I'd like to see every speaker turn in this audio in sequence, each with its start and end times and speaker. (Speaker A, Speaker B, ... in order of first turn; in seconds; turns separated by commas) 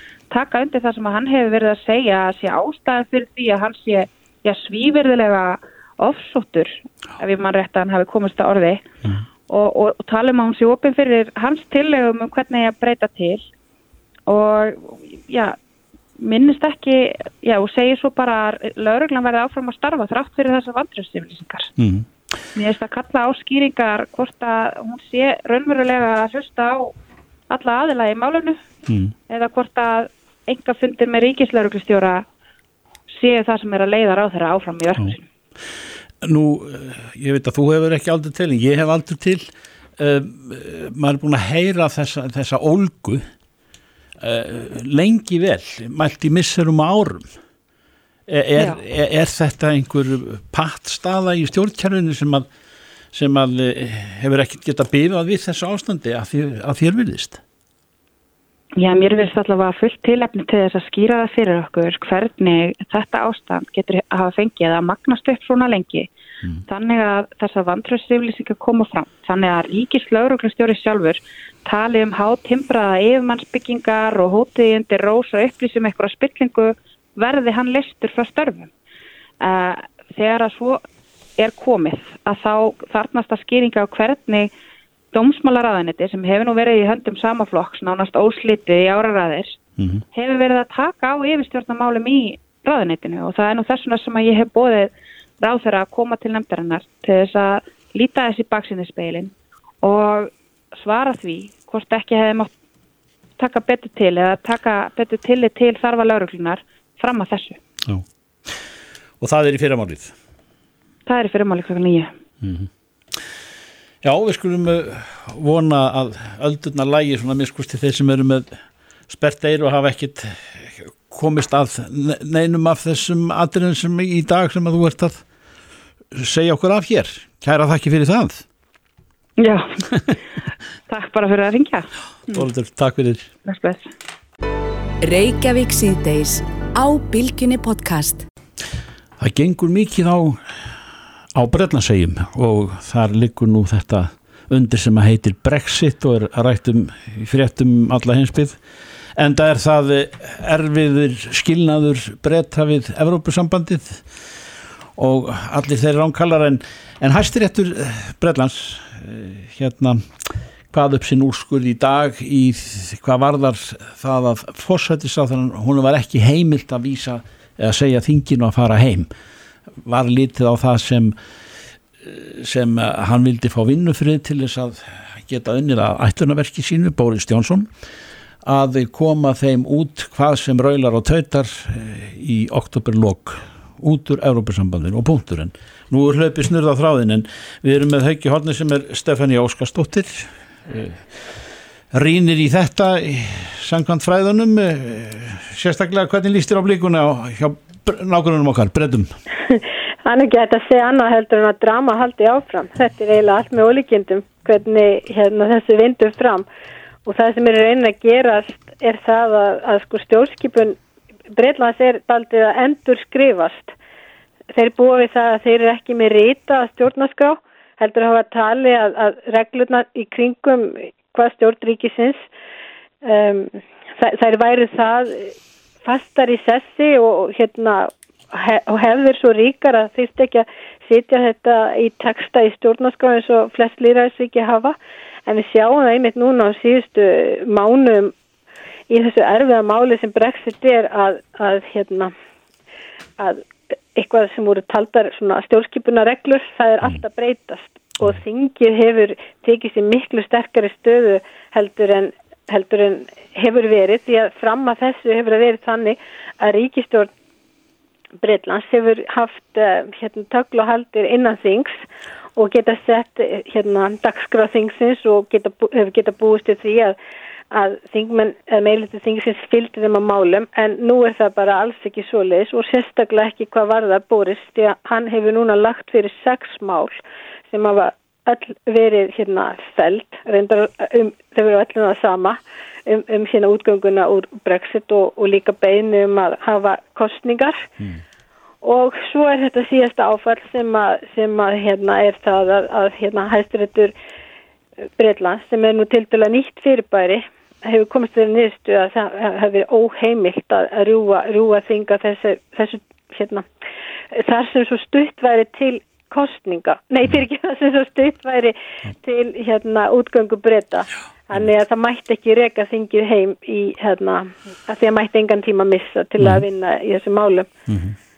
Speaker A: 0.3-8.9, Speaker A: 9.5-13.4, Speaker A: 14.3-15.6, Speaker A: 16.2-21.7, Speaker B: 21.8-22.1, Speaker A: 22.6-26.9, Speaker A: 27.5-28.6, Speaker B: 28.9-29.1, Speaker A: 29.3-32.2, Speaker A: 33.1-35.2, Speaker B: 36.2-43.2, Speaker B: 44.2-47.3, Speaker B: 48.3-52.5, Speaker B: 53.1-57.4, Speaker A: 58.8-66.1, Speaker A: 66.7-78.7, Speaker A: 79.4-80.8, Speaker A: 81.4-84.5, Speaker A: 85.1-89.6, Speaker B: 89.8-90.0, Speaker A: 90.1-102.5, Speaker A: 103.4-107.6, Speaker B: 107.9-108.6, Speaker B: 109.2-110.1, Speaker A: 111.1-112.1, Speaker B: 112.4-113.2, Speaker B: 114.0-118.5, Speaker B: 119.1-125.2, Speaker B: 126.1-128.4, Speaker A: 129.4-129.9, Speaker A: 130.9-132.5, Speaker B: 132.3-133.3, Speaker A: 133.4-133.9, Speaker C: 135.0-138.3, Speaker B: 139.2-140.4, Speaker B: 141.3-148.6, Speaker B: 149.2-154.1, Speaker B: 155.0-169.1, Speaker B: 169.8-171.2, Speaker B: 172.0-177.7, Speaker B: 178.4-191.1, Speaker B: 191.9-199.1, Speaker D: 199.5-206.5, Speaker D: 207.1-210.8, Speaker D: 211.3-213.7, Speaker D: 214.5-222.2, Speaker D: 223.0-238.2, Speaker D: 238.9-242.1, Speaker D: 243.2-257.1, Speaker D: 258.2-261.8, Speaker D: 262.4-267.0, Speaker D: 267.5-276.9, Speaker D: 277.5-287.7, Speaker D: 288.6-293.9, Speaker D: 295.0-303.4, Speaker D: 304.1-317.5, Speaker B: 317.7-317.9